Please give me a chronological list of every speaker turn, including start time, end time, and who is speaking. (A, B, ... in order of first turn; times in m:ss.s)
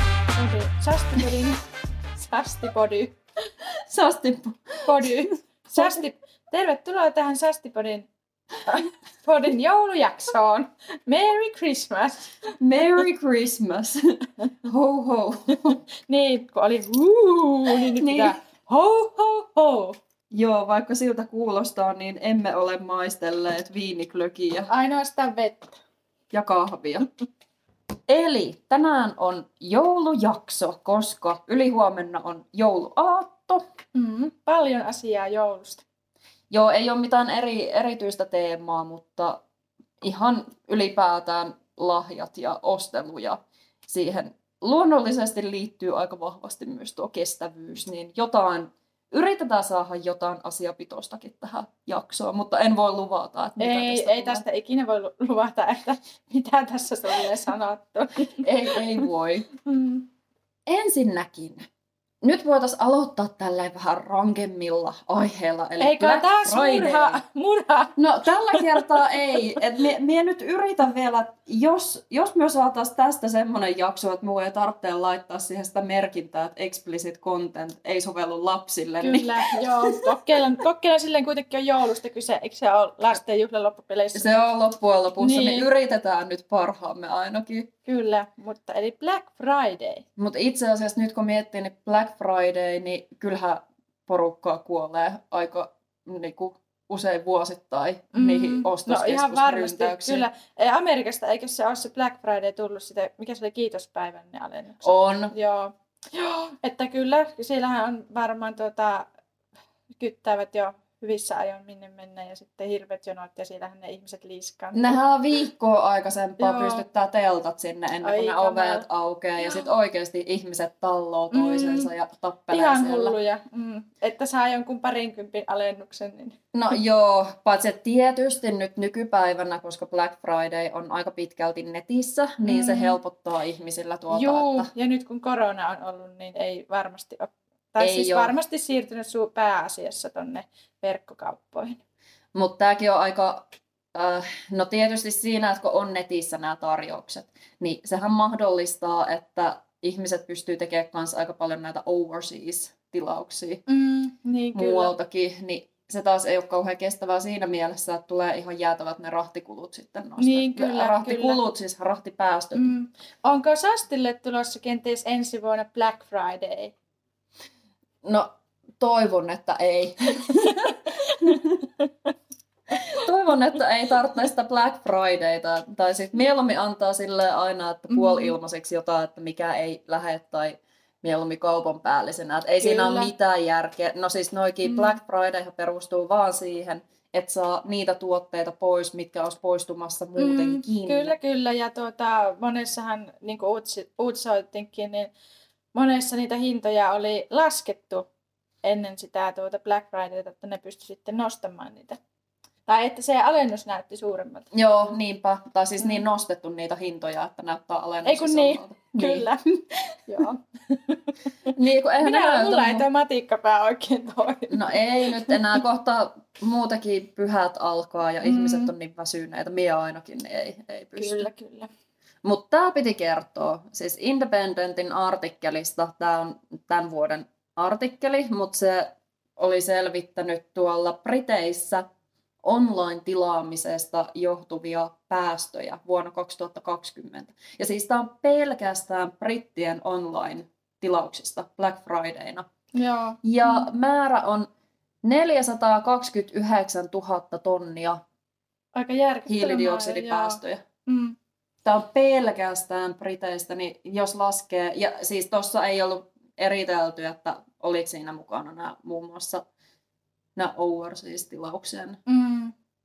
0:00.3-0:01.6 A
0:02.2-0:03.2 A
0:03.9-0:06.0 B
0:04.8-0:08.1 A
0:08.6-0:12.3 A
0:12.6-0:15.8 B
0:16.1-0:20.0 A
0:18.0-0:18.4 B
0:20.3-0:24.7 B
0:24.7-0:25.8 A
0:26.3-0:27.1 B
0:28.1-0:33.6 B
0:33.9-0:35.8 A
0:36.5-0:39.4 B
0:40.0-0:54.4 B
0:53.6-0:58.8 A
0:58.4-0:59.5 B
0:59.6-1:00.0 A
1:00.7-1:01.7 B
1:02.2-1:07.2 B
1:05.8-1:07.9 A
1:08.0-1:20.1 B
1:08.5-1:09.0 A
1:19.0-1:24.4 A
1:24.1-1:27.7 B
1:25.2-1:25.7 A
1:27.8-1:30.0 A
1:30.2-1:40.3 B
1:38.1-1:49.1 A
1:44.8-1:45.3 B
1:50.0-1:54.9 A
1:54.7-2:03.2 B
1:56.4-1:56.8 A
1:58.0-1:58.8 A
2:01.3-2:01.9 A
2:02.5-2:06.4 A
2:06.5-2:14.7 B
2:12.4-2:13.0 A
2:14.1-2:21.8 A
2:17.8-2:18.4 B
2:22.3-2:33.6 B
2:33.7-2:34.9 A
2:34.5-2:42.7 B
2:40.2-2:41.4 A
2:42.5-2:46.7 A
2:48.0-2:51.6 B
2:52.9-3:11.1 B
2:57.9-2:58.3 A
3:02.6-3:03.1 A
3:04.6-3:05.0 A
3:10.2-3:15.1 A
3:15.7-3:18.0 A
3:18.6-3:22.0 A
3:22.6-3:24.5 A
3:24.5-3:29.3 B
3:28.0-3:29.4 A
3:30.1-3:35.3 A
3:31.5-3:32.8 B
3:34.5-3:41.3 B
3:38.2-3:38.7 A
3:40.9-3:41.7 A
3:42.2-3:51.8 B
3:52.4-4:02.5 B
4:02.7-4:03.7 A
4:03.2-4:04.5 B
4:05.0-4:08.0 B
4:08.8-4:11.2 A
4:09.3-4:10.6 B
4:11.6-4:19.4 B
4:20.4-4:22.0 B
4:22.1-4:22.5 A